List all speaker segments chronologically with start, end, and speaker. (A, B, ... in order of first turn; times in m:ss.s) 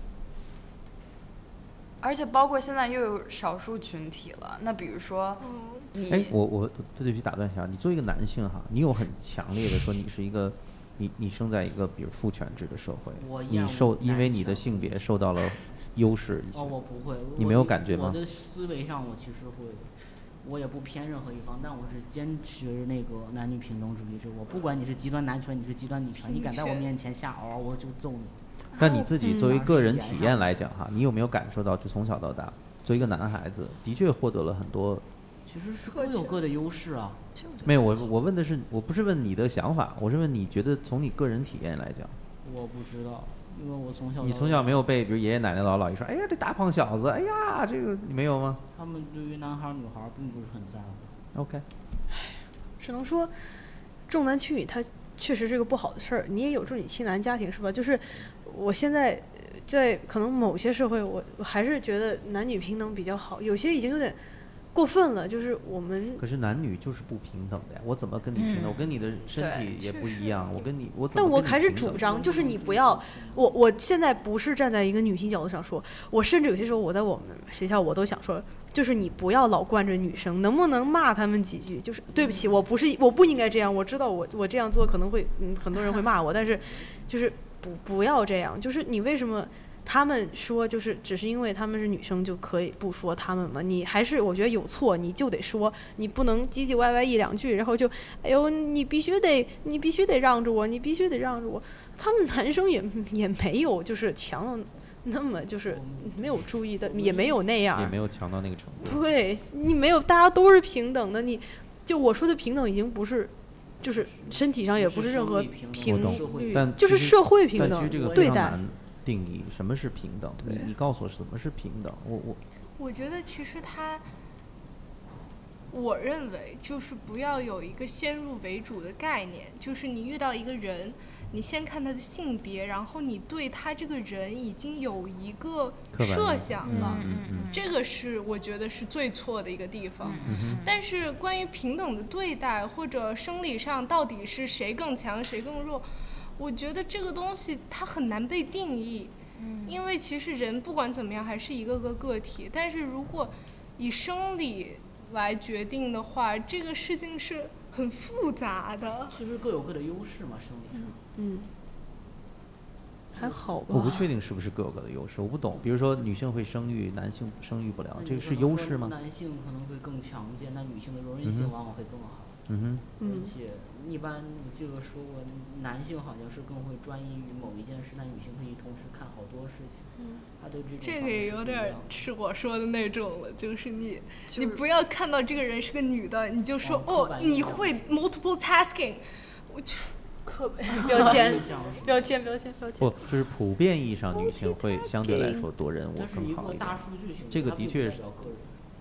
0:02.0-0:06.3 A
0:05.4-0:05.9 B
0:06.1-0:16.8 C
0:13.2-0:15.1 D
0:16.5-0:28.4 D
0:17.4-0:18.2 C
0:26.2-0:26.9 B
0:28.8-0:29.1 A
0:28.8-0:35.0 C
0:29.2-0:29.5 E
0:29.3-0:30.7 D
0:35.5-0:37.2 D
0:35.9-0:36.4 B
0:37.4-0:38.0 A
0:37.6-0:42.2 C
0:42.4-0:44.8 D
0:44.2-0:48.6 C
0:48.7-0:51.2 D
0:51.3-0:51.6 C
0:52.1-0:53.3 E
0:54.1-1:04.2 E
1:04.7-1:06.2 E
1:06.2-1:12.0 C
1:08.4-1:08.8 A
1:09.4-1:09.7 A
1:09.8-1:10.7 B
1:11.2-1:48.0 E
1:11.8-1:13.5 D
1:26.7-1:27.0 D
1:45.7-1:47.4 D
1:47.8-1:49.0 C
1:48.8-1:58.6 E
1:53.8-1:56.7 D
1:55.8-2:02.4 C
1:57.6-1:58.6 D
2:00.4-2:00.7 E
2:02.8-2:04.1 B
2:05.7-2:29.1 B
2:15.9-2:17.5 C
2:16.7-2:17.7 A
2:20.0-2:20.8 A
2:20.2-2:20.6 C
2:29.4-2:29.8 A
2:29.7-2:39.2 B
2:39.1-2:41.0 D
2:41.2-2:41.5 E
2:43.2-2:43.4 D
2:43.2-2:44.1 E
2:43.7-2:48.9 C
2:48.0-2:52.4 D
2:51.2-2:51.5 C
2:52.5-2:52.8 C
2:53.0-2:53.3 E
2:53.0-3:02.0 D
3:00.8-3:11.2 B
3:04.3-3:04.6 A
3:06.6-3:08.0 D
3:10.6-3:12.9 E
3:10.8-3:12.1 D
3:12.8-3:18.0 C
3:15.0-3:15.4 E
3:16.0-3:18.6 D